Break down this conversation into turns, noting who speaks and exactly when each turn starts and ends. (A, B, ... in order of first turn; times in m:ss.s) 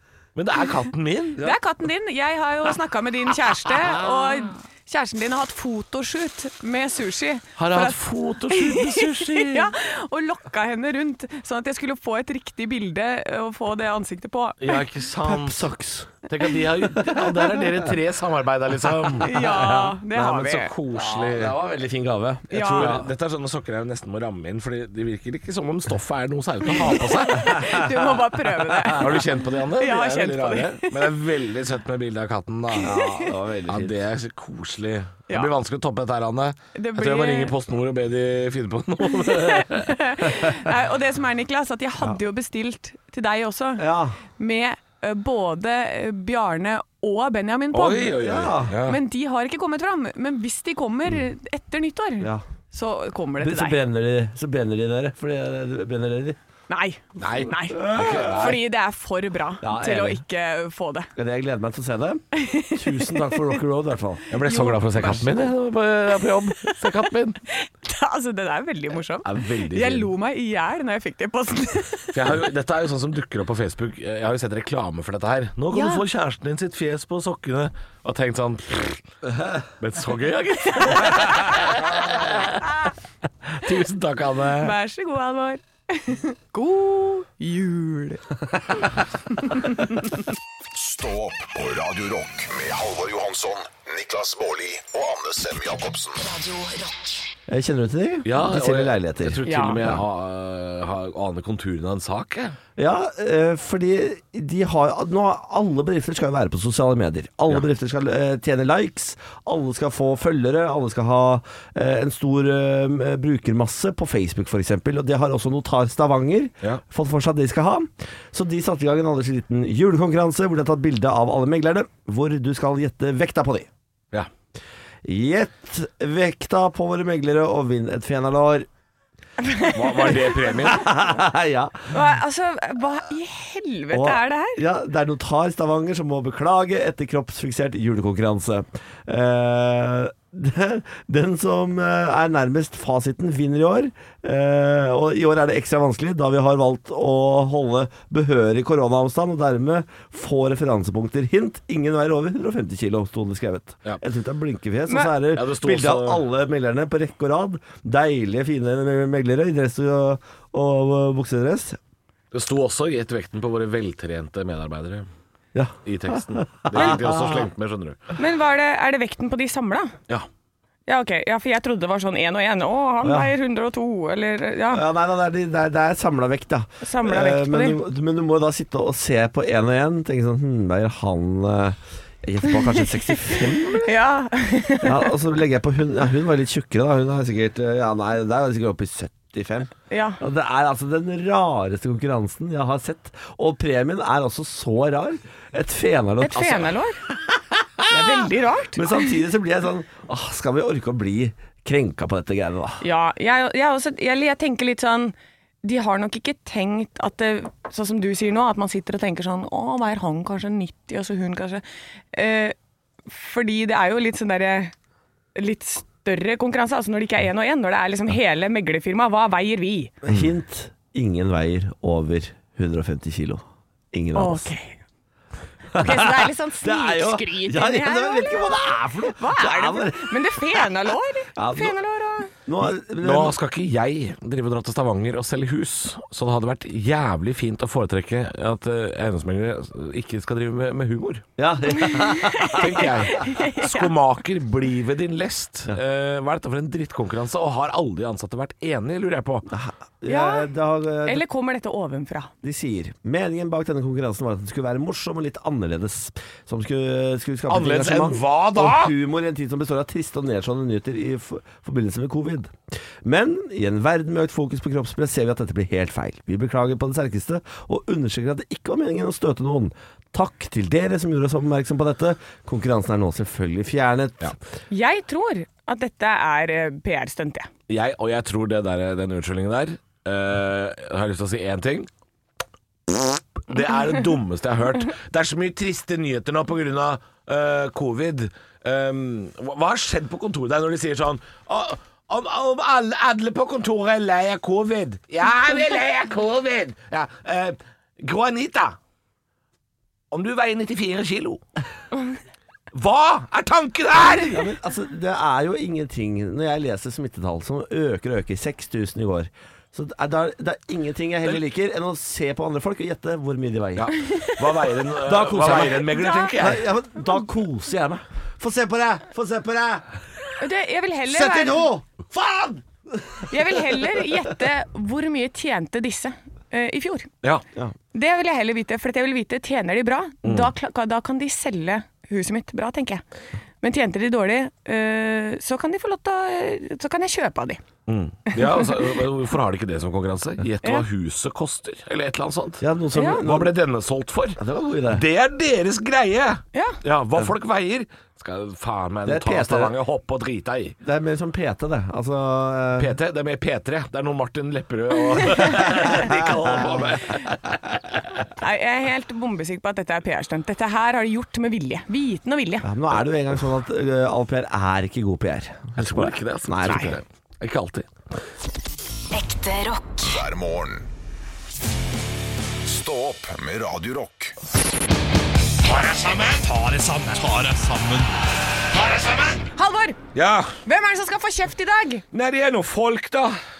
0:00.3-0:01.5 A
0:01.4-0:14.8 B
0:07.6-0:09.7 A
0:14.6-0:15.6 A
0:15.2-0:16.2 C
0:16.3-0:19.3 A
0:16.9-0:17.9 C
0:19.2-0:20.4 C
0:19.2-0:20.7 B
0:20.2-0:21.6 A
0:20.9-0:23.1 C
0:22.5-0:22.9 B
0:22.5-0:27.8 A
0:26.6-0:29.2 B
0:27.6-0:28.9 C
0:28.8-0:33.0 A
0:29.8-0:31.0 B
0:32.8-0:33.3 B
0:32.8-0:34.0 C
0:33.7-0:40.1 A
0:36.7-0:37.5 B
0:39.0-0:43.8 B
0:43.8-0:44.2 C
0:44.4-0:48.2 B
0:47.7-0:49.0 A
0:48.1-0:48.8 C
0:48.8-0:53.8 B
0:53.4-0:56.4 C
0:56.7-1:01.1 B
0:57.2-0:58.6 A
0:57.7-0:58.6 C
0:59.6-1:00.2 C
1:01.2-1:04.3 C
1:02.3-1:03.4 B
1:04.3-1:07.4 A
1:04.4-1:05.0 B
1:05.0-1:05.3 C
1:06.6-1:06.9 B
1:07.5-1:12.2 B
1:09.2-1:10.1 A
1:12.1-1:19.1 A
1:15.7-1:16.0 B
1:19.7-1:22.7 A
1:20.7-1:21.8 B
1:23.5-1:24.7 A
1:24.6-1:28.2 B
1:29.4-1:30.0 B
1:30.7-1:36.2 D
1:36.2-1:37.3 E
1:37.5-1:40.0 C
1:38.2-1:42.6 A
1:39.4-1:39.8 B
1:42.8-2:03.7 C
2:05.0-2:08.7 C
2:09.4-2:10.1 B
2:09.6-2:10.8 A
2:10.6-2:11.9 C
2:11.9-2:14.6 B
2:13.9-2:41.8 C
2:35.2-2:36.2 A
2:42.3-2:45.1 A
2:45.5-2:47.4 C
2:45.8-2:48.0 A
2:48.2-2:49.9 B
2:50.9-2:54.8 B
2:53.0-2:53.3 C
2:54.7-3:03.9 C
2:56.8-2:57.8 B
3:03.2-3:05.1 B
3:04.8-3:16.7 C
3:09.9-3:10.2 B
3:16.2-3:17.0 B
3:17.9-3:19.1 B
3:18.7-3:22.8 C
3:22.8-3:32.6 B
3:33.1-3:34.7 B
3:35.3-3:39.9 B
3:40.0-3:44.5 C
3:44.1-3:44.8 B
3:45.7-3:50.7 C
3:45.7-3:52.3 B
3:51.4-3:51.8 C
3:52.4-3:53.4 C
3:53.0-4:01.3 A
4:01.4-4:03.1 C
4:01.8-4:03.9 B
4:02.5-4:09.5 A
4:09.5-4:11.2 C
4:10.1-4:10.5 B
4:11.0-4:12.3 B
4:12.4-4:34.3 C
4:17.5-4:18.9 A
4:34.7-4:37.5 B
4:37.7-4:41.9 A
4:42.9-4:58.8 A
5:00.1-5:01.4 A
5:02.7-5:04.5 A
5:04.3-5:14.0 C
5:13.8-5:16.7 A
5:15.0-5:19.8 C
5:15.8-5:16.3 B
5:20.4-5:21.7 B
5:21.1-5:23.9 C
5:23.3-5:27.1 B
5:27.9-5:33.0 B
5:30.2-5:30.5 A
5:33.6-5:37.6 B
5:37.9-5:42.6 A
5:38.3-5:38.9 B
5:42.6-5:43.5 C
5:42.9-5:43.2 B
5:43.1-5:50.8 A
5:44.4-5:45.0 C
5:49.0-5:49.7 C
5:50.8-5:52.9 C
5:52.8-5:58.0 A
5:55.6-5:56.9 C
5:58.3-6:02.7 B
6:02.6-6:07.0 C
6:05.8-6:07.9 A
6:09.1-6:10.2 E
6:10.0-6:10.9 D
6:12.6-6:14.4 D
6:15.6-6:18.2 A
6:18.7-6:19.5 A
6:19.6-6:20.0 B
6:20.1-6:20.6 A
6:20.6-6:22.0 B
6:22.1-6:23.4 A